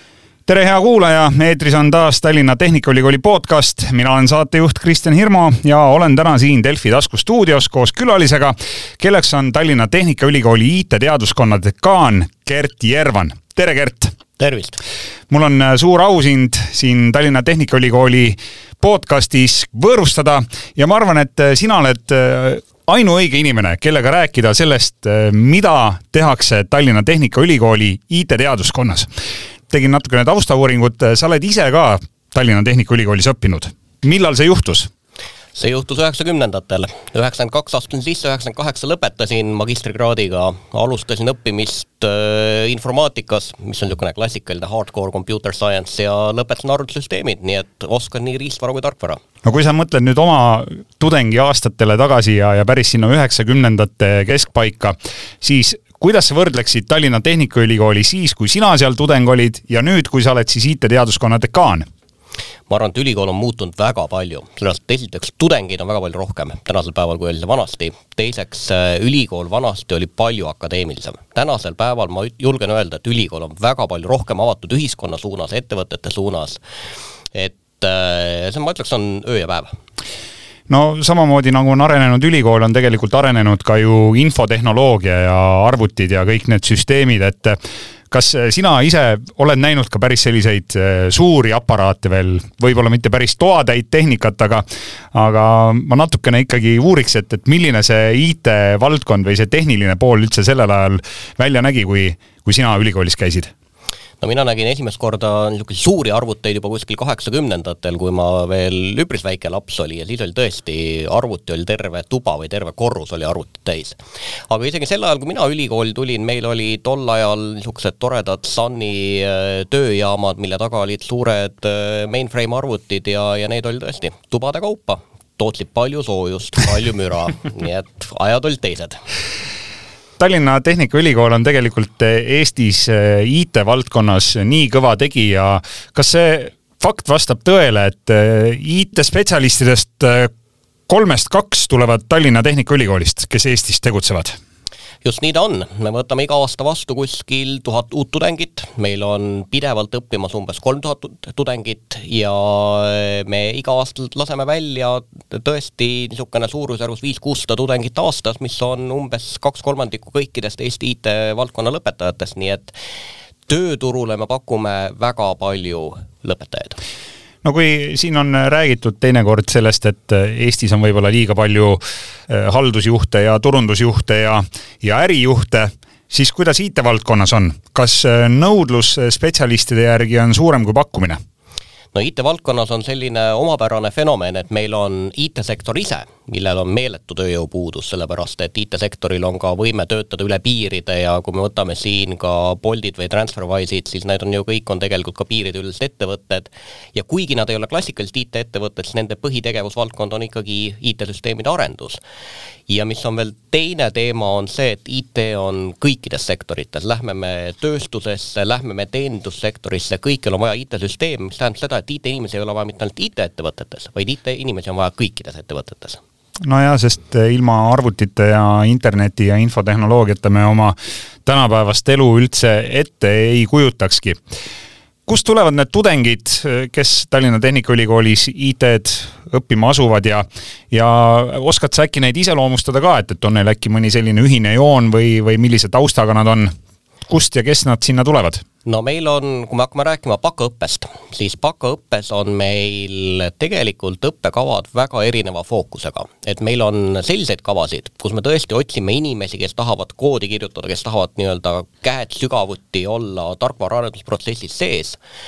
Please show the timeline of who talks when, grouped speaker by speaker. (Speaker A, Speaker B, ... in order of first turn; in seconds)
Speaker A: 0.5-14.2, 15.3-29.1, 29.7-34.9, 49.4-61.9, 80.7-87.6, 88.1-103.5, 130.2-140.3, 140.9-144.4, 167.4-181.2, 216.4-224.2, 225.1-236.5, 237.1-238.4
Speaker B: 14.4-14.8, 35.5-49.2, 62.7-76.6, 77.3-79.7, 104.2-114.0, 114.5-129.0, 145.0-162.7, 163.5-166.8, 181.9-202.0, 202.7-216.0, 238.6-255.0